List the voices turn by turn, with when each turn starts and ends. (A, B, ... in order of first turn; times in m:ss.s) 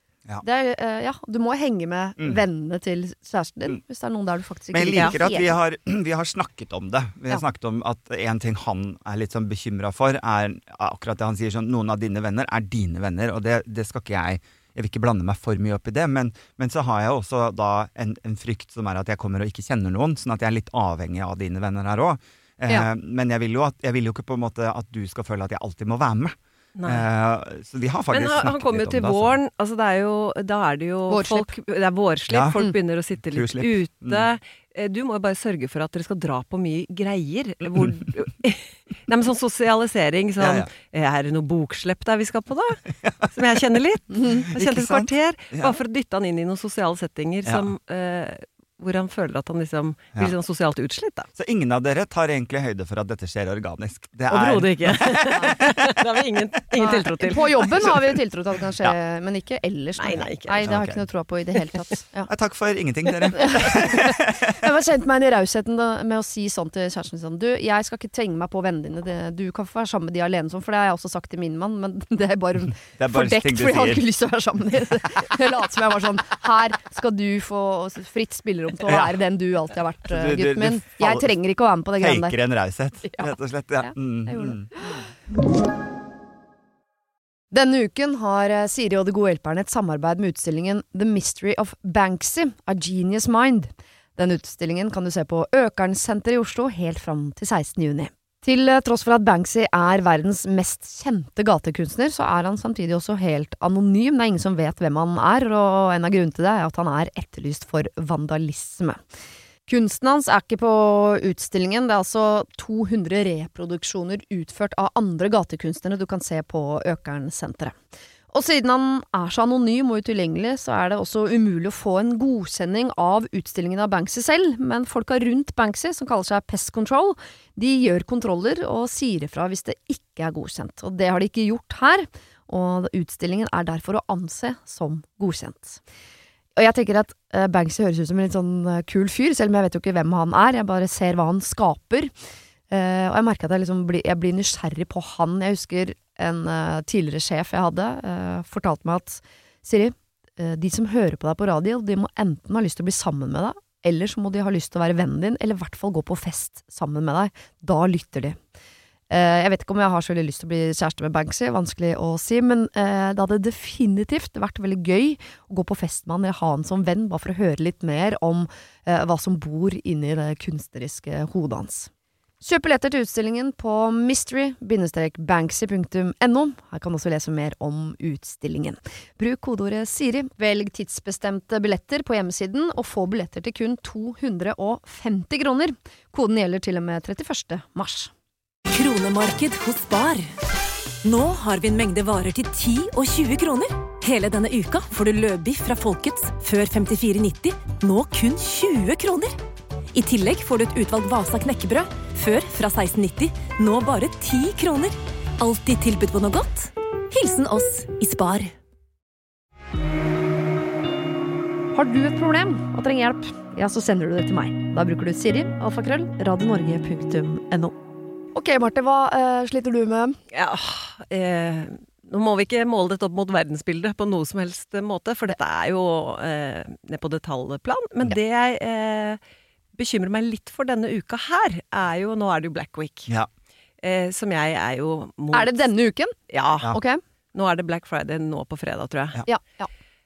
0:00.4-0:05.6 A
0:04.7-0:29.4 B
0:26.8-0:27.0 C
0:28.1-0:51.3 C
0:31.1-0:31.5 A
0:32.3-0:32.7 B
0:33.2-0:34.3 B
0:40.4-0:40.7 B
0:44.3-0:45.8 B
0:51.4-0:55.9 B
0:54.3-0:57.7 C
0:56.8-1:02.3 A
0:57.6-0:58.0 B
1:00.0-1:00.6 C
1:00.6-1:01.0 B
1:02.3-1:04.6 B
1:03.3-1:22.4 A
1:13.0-1:14.0 B
1:18.8-1:19.2 B
1:20.1-1:21.3 B
1:22.0-1:24.7 B
1:23.9-1:25.0 A
1:27.5-1:49.0 A
1:49.7-1:57.7 A
1:58.3-2:15.8 A
2:16.6-2:22.1 A
2:22.7-2:38.4 A
2:39.1-2:51.9 A
2:52.4-3:08.1 A
3:08.7-3:10.3 D
3:11.0-3:19.3 D
3:19.9-3:28.5 D
3:31.7-3:37.7 A
3:38.3-3:40.2 A
3:40.3-3:49.2 C
3:49.7-3:53.1 C
3:53.8-3:55.7 C
3:55.3-3:56.1 A
3:56.3-3:56.8 C
3:56.7-3:57.0 A
3:57.3-3:59.2 C
3:59.2-3:59.7 A